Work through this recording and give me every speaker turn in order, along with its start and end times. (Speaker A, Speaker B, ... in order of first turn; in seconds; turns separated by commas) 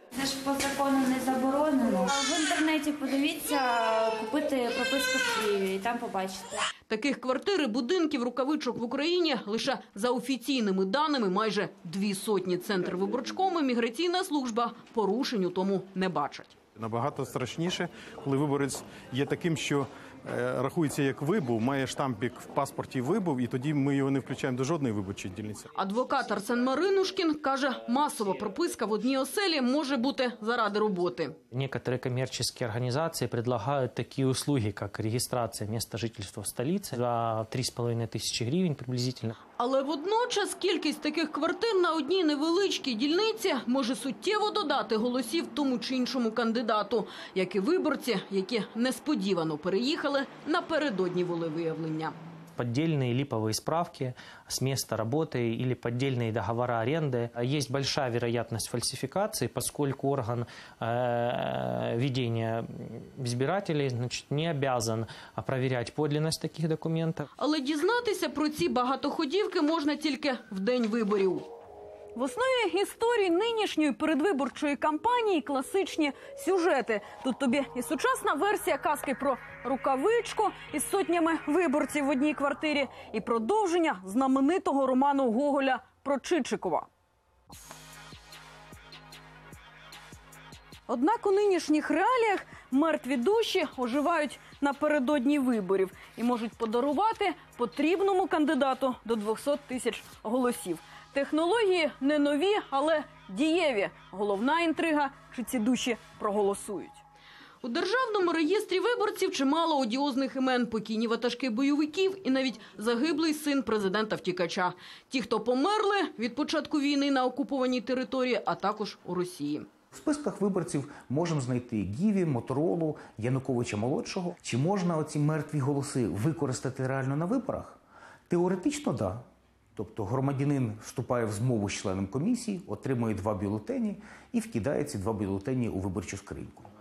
Speaker A: 0.2-6.5, Speaker B: 6.9-16.5, Speaker C: 16.8-25.7, Speaker B: 25.8-31.4, Speaker D: 31.5-39.4, Speaker B: 39.6-52.2, Speaker D: 52.6-67.3, Speaker B: 67.4-71.5, Speaker B: 72.2-86.9, Speaker B: 90.9-107.0, Speaker B: 107.6-119.7, Speaker E: 119.9-127.8, Speaker E: 128.3-129.2, Speaker E: 129.8-136.7